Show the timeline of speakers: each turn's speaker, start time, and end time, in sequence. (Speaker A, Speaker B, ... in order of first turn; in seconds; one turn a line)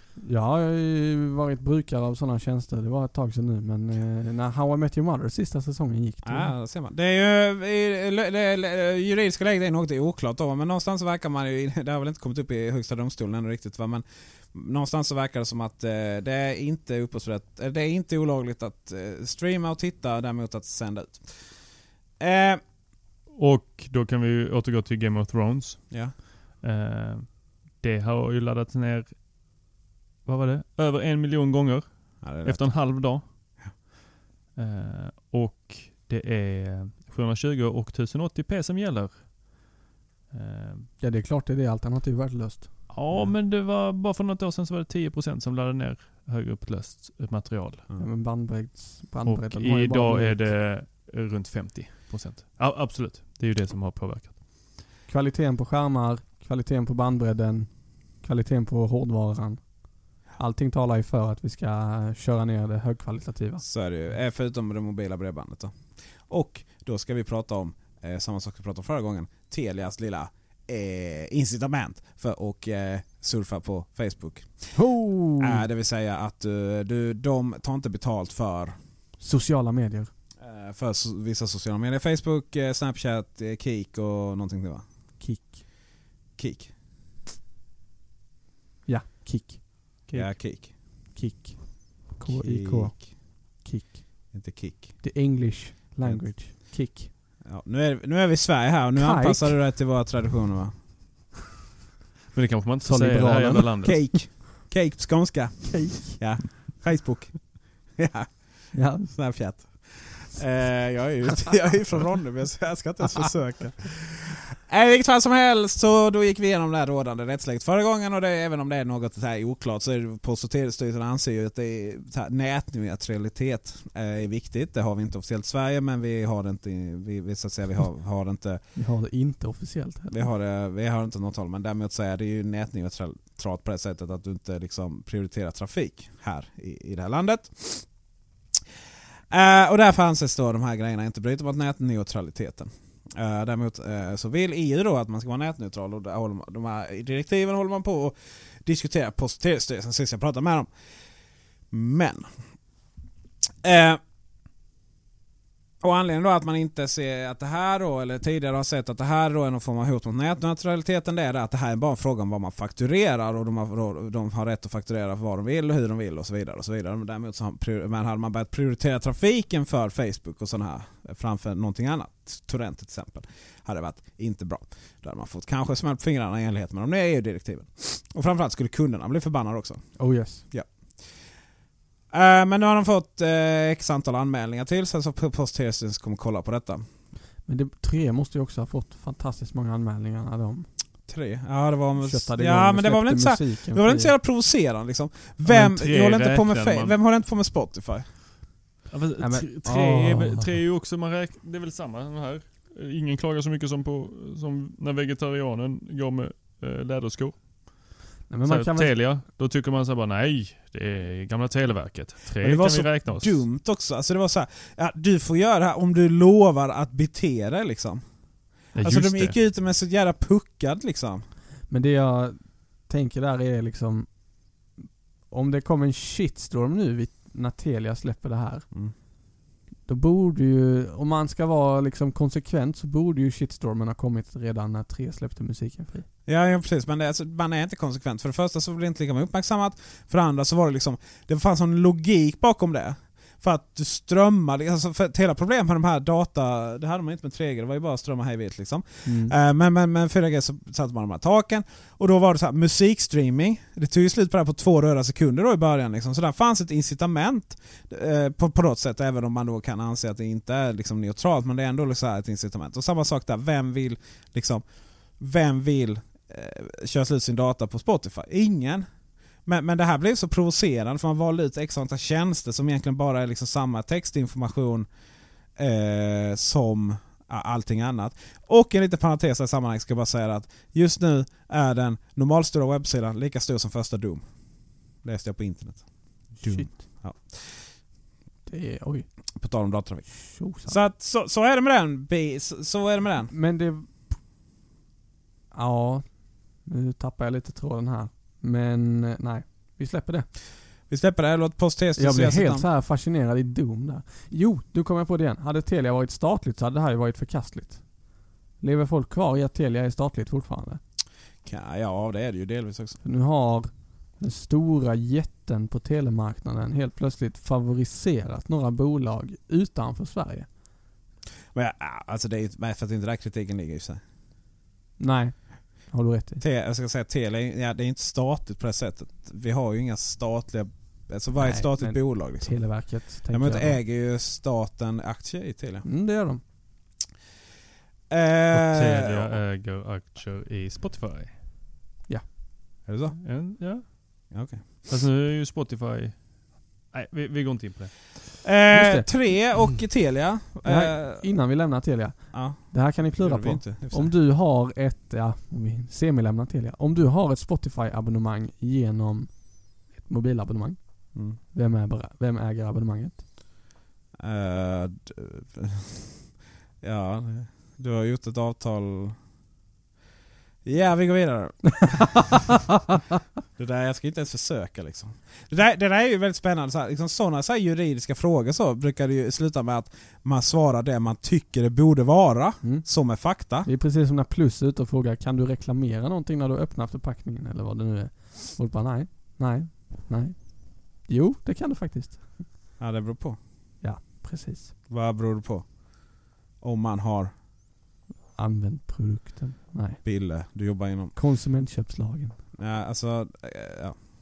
Speaker A: 0.2-6.5
Speaker B: 6.2-21.6
Speaker B: 22.2-22.6
Speaker C: 23.3-29.1
Speaker B: 25.9-26.1
Speaker C: 30.2-33.2
Speaker B: 32.2-33.0
Speaker C: 34.5-39.6
Speaker C: 40.3-40.9
Speaker A: 41.0-42.7
Speaker C: 42.9-47.8
Speaker A: 48.0-50.5
Speaker C: 49.2-54.4
Speaker A: 55.1-59.7
Speaker A: 60.2-63.6
Speaker B: 63.6-65.7
Speaker B: 66.3-74.7
Speaker A: 74.7-75.6
Speaker B: 75.4-78.7
Speaker A: 79.2-80.1
Speaker B: 80.4-84.8
Speaker A: 85.2-85.6
Speaker B: 86.4-86.7
Speaker A: 88.9-94.3
Speaker B: 90.1-90.7
Speaker B: 92.2-93.1
Speaker B: 94.3-95.0
Speaker A: 95.0-97.1
Speaker B: 96.0-96.6
Speaker B: 97.4-100.7
Speaker A: 99.0-99.5
Speaker C: 102.3-104.1
Speaker A: 102.8-103.7
Speaker B: 103.8-128.7
Speaker A: 105.7-106.2
Speaker A: 108.7-109.1
Speaker A: 128.7-130.2
Speaker B: 130.1-137.9
Speaker B: 139.3-150.7
Speaker B: 151.7-152.3
Speaker B: 153.6-154.0
Speaker B: 155.8-180.7
Speaker A: 180.0-180.4
Speaker B: 182.1-186.8
Speaker A: 187.4-190.7
Speaker B: 191.1-198.1
Speaker A: 192.0-194.1
Speaker C: 195.4-196.9
Speaker C: 198.9-207.8
Speaker A: 199.2-200.5
Speaker A: 208.3-209.0
Speaker C: 208.4-213.4
Speaker B: 212.4-218.0
Speaker C: 218.7-219.4
Speaker B: 218.8-221.2
Speaker A: 221.7-224.1
Speaker A: 225.3-228.7
Speaker A: 229.8-236.1
Speaker B: 236.3-264.6
Speaker A: 249.0-249.3
Speaker B: 265.2-268.9
Speaker B: 269.4-274.9
Speaker B: 275.6-284.2
Speaker B: 285.0-287.6
Speaker A: 286.4-286.8
Speaker A: 288.5-289.1
Speaker B: 289.4-293.3
Speaker A: 290.2-290.8
Speaker A: 293.3-293.9
Speaker A: 295.5-296.1
Speaker A: 296.6-300.3
Speaker B: 300.9-302.6
Speaker A: 302.0-307.8
Speaker A: 308.6-310.8
Speaker B: 311.4-313.0
Speaker A: 313.0-320.5
Speaker B: 321.5-324.0
Speaker A: 325.0-326.4
Speaker B: 326.4-335.9
Speaker A: 331.4-333.8
Speaker A: 335.8-336.4
Speaker B: 338.1-339.3
Speaker C: 338.5-341.3
Speaker B: 342.9-343.2
Speaker C: 343.2-344.3
Speaker B: 344.3-344.8
Speaker C: 344.8-348.0
Speaker B: 348.4-351.2
Speaker A: 348.7-349.1
Speaker A: 350.6-360.8
Speaker B: 352.3-354.1
Speaker A: 361.3-363.2
Speaker B: 364.2-366.2
Speaker B: 366.8-369.1
Speaker B: 370.6-372.3
Speaker B: 373.6-383.7
Speaker A: 383.6-392.5
Speaker B: 392.8-393.4
Speaker A: 393.8-394.7
Speaker B: 394.9-395.7
Speaker B: 396.6-397.3
Speaker A: 398.4-400.0
Speaker B: 400.0-401.1
Speaker A: 401.1-402.3
Speaker B: 402.6-404.0